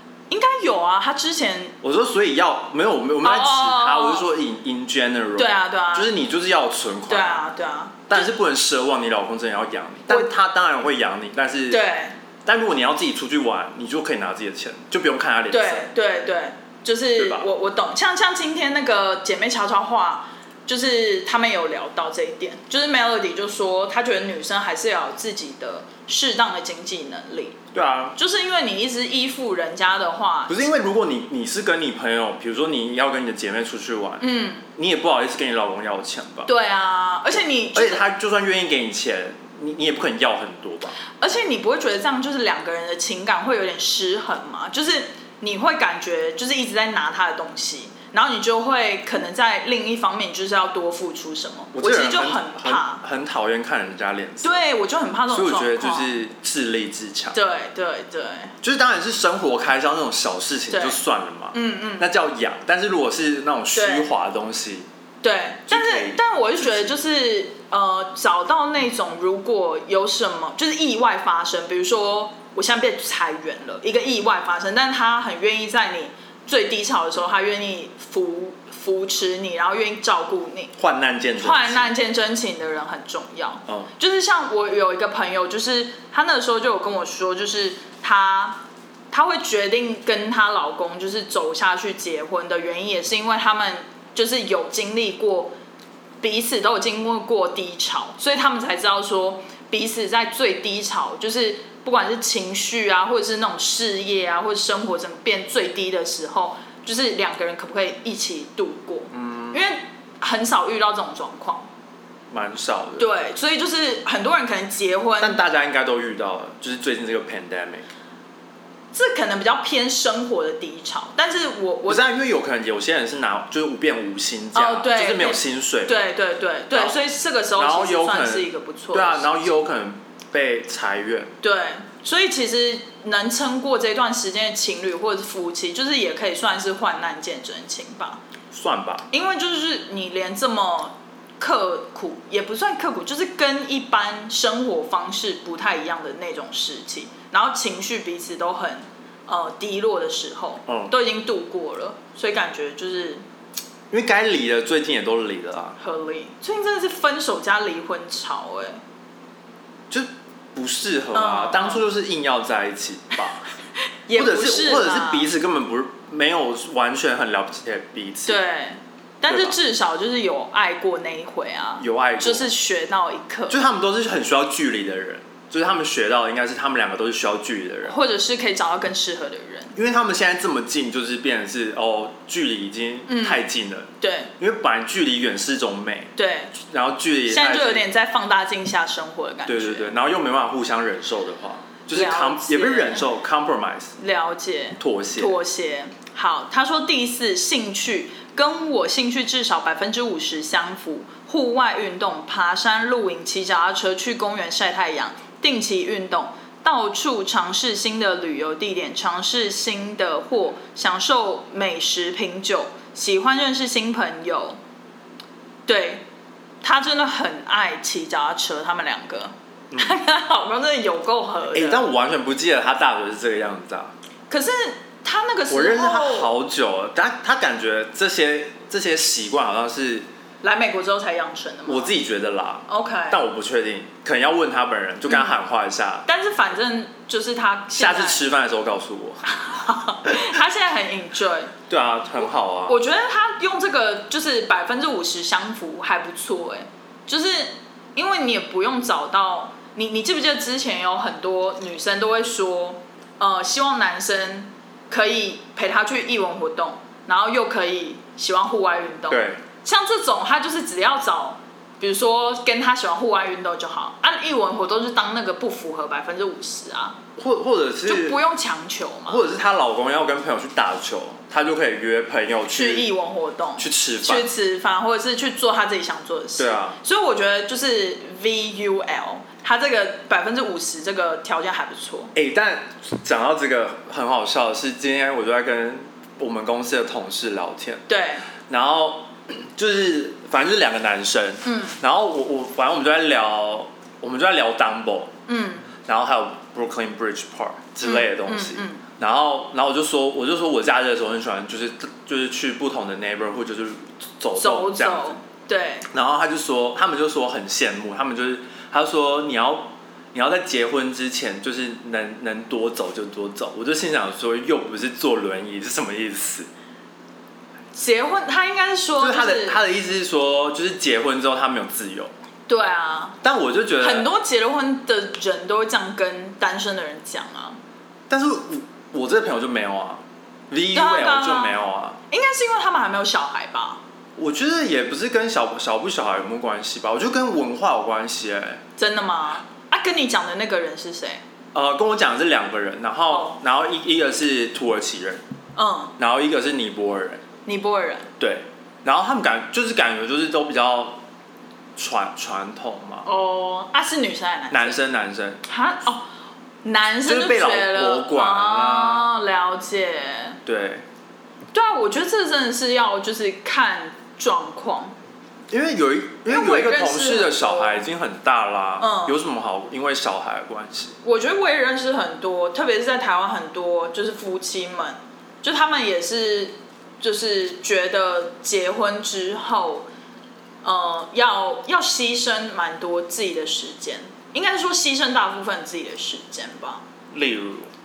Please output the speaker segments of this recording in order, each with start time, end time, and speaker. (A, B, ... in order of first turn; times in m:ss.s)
0:00.3-0:01.8 A
0:01.8-0:07.5 B
0:03.2-0:04.3 A
0:05.4-0:06.1 A
0:07.1-0:08.3 A
0:08.1-0:11.8 B
0:11.7-0:12.2 A
0:12.4-0:15.9 B
0:15.5-0:27.6 A
0:17.2-0:17.5 B
0:27.7-0:28.2 B
0:28.2-0:30.7 A
0:30.5-0:34.2 B
0:34.2-0:34.7 A
0:34.8-0:36.5 B
0:36.5-0:38.1 A
0:37.7-0:41.0 B
0:41.2-0:53.0 A
0:51.7-0:54.6 B
0:54.4-0:56.2 A
0:55.3-0:57.4 B
0:57.3-0:58.6 A
0:58.6-1:04.9 B
1:00.7-1:01.0 A
1:01.5-1:02.1 A
1:03.8-1:04.1 A
1:05.2-1:20.7 A
1:05.7-1:07.0 B
1:20.8-1:21.9 B
1:21.4-1:35.6 A
1:36.2-1:51.7 A
1:49.1-1:49.6 B
1:52.3-1:53.1 B
1:53.0-1:55.4 A
1:55.2-1:57.9 B
1:58.9-2:02.0 A
2:01.9-2:06.0 B
2:04.5-2:09.3 A
2:06.7-2:07.0 B
2:07.6-2:11.3 B
2:11.4-2:18.2 A
2:18.5-2:19.1 B
2:19.1-2:33.2 A
2:30.7-2:30.9 B
2:33.9-2:35.8 B
2:35.8-2:38.8 A
2:39.9-2:43.4 B
2:41.1-2:41.8 A
2:44.1-2:45.3 A
2:44.1-2:48.4 B
2:48.3-2:53.6 A
2:49.3-2:49.6 B
2:51.8-2:52.5 B
2:53.5-2:58.0 B
2:57.9-2:59.8 A
2:59.8-3:07.9 B
3:03.1-3:03.5 A
3:04.0-3:04.3 A
3:06.2-3:06.6 A
3:07.3-3:09.9 A
3:09.5-3:14.0 B
3:11.9-3:13.1 A
3:14.0-3:34.6 A
3:14.8-3:15.4 B
3:35.7-3:36.0 A
3:36.6-3:41.9 A
3:39.7-3:40.0 B
3:41.5-3:43.9 B
3:44.3-3:46.3 A
3:45.5-3:50.1 B
3:50.4-3:52.0 A
3:51.7-3:56.0 B
3:52.7-3:53.2 A
3:56.1-3:58.2 A
3:57.7-3:59.2 B
3:59.2-4:01.5 A
4:01.7-4:02.8 B
4:02.7-4:27.0 A
4:19.1-4:19.4 B
4:27.2-4:28.2 B
4:27.9-4:29.2 A
4:29.1-4:32.9 B
4:32.5-4:42.1 A
4:33.6-4:34.3 B
4:36.4-4:36.8 B
4:42.1-4:47.9 B
4:47.9-4:48.3 A
4:48.5-4:55.1 B
4:51.4-4:51.8 A
4:55.3-4:55.7 A
4:55.9-5:05.2 B
4:57.8-4:58.8 A
5:04.4-5:05.9 A
5:05.9-5:16.5 B
5:17.7-5:19.6 A
5:19.0-5:22.1 B
5:22.5-5:23.2 A
5:23.2-5:24.1 B
5:23.8-5:27.6 A
5:28.1-5:32.0 B
5:30.7-5:31.6 A
5:32.1-5:33.8 A
5:34.2-5:38.6 B
5:38.8-5:41.2 A
5:41.5-5:45.2 B
5:43.1-5:43.4 A
5:45.6-5:46.0 A
5:46.0-5:47.2 B
5:47.5-5:48.1 A
5:48.2-5:51.0 B
5:51.8-5:53.1 B
5:53.1-5:54.8 A
5:54.5-5:55.4 B
5:55.5-5:56.0 A
5:56.6-6:00.4 A
5:57.0-5:59.1 B
6:00.5-6:00.8 B
6:01.5-6:04.9 A
6:05.5-6:11.0 B
6:06.3-6:07.8 A
6:08.8-6:09.2 A
6:11.0-6:19.9 A
6:20.6-6:26.8 A
6:27.1-6:27.7 B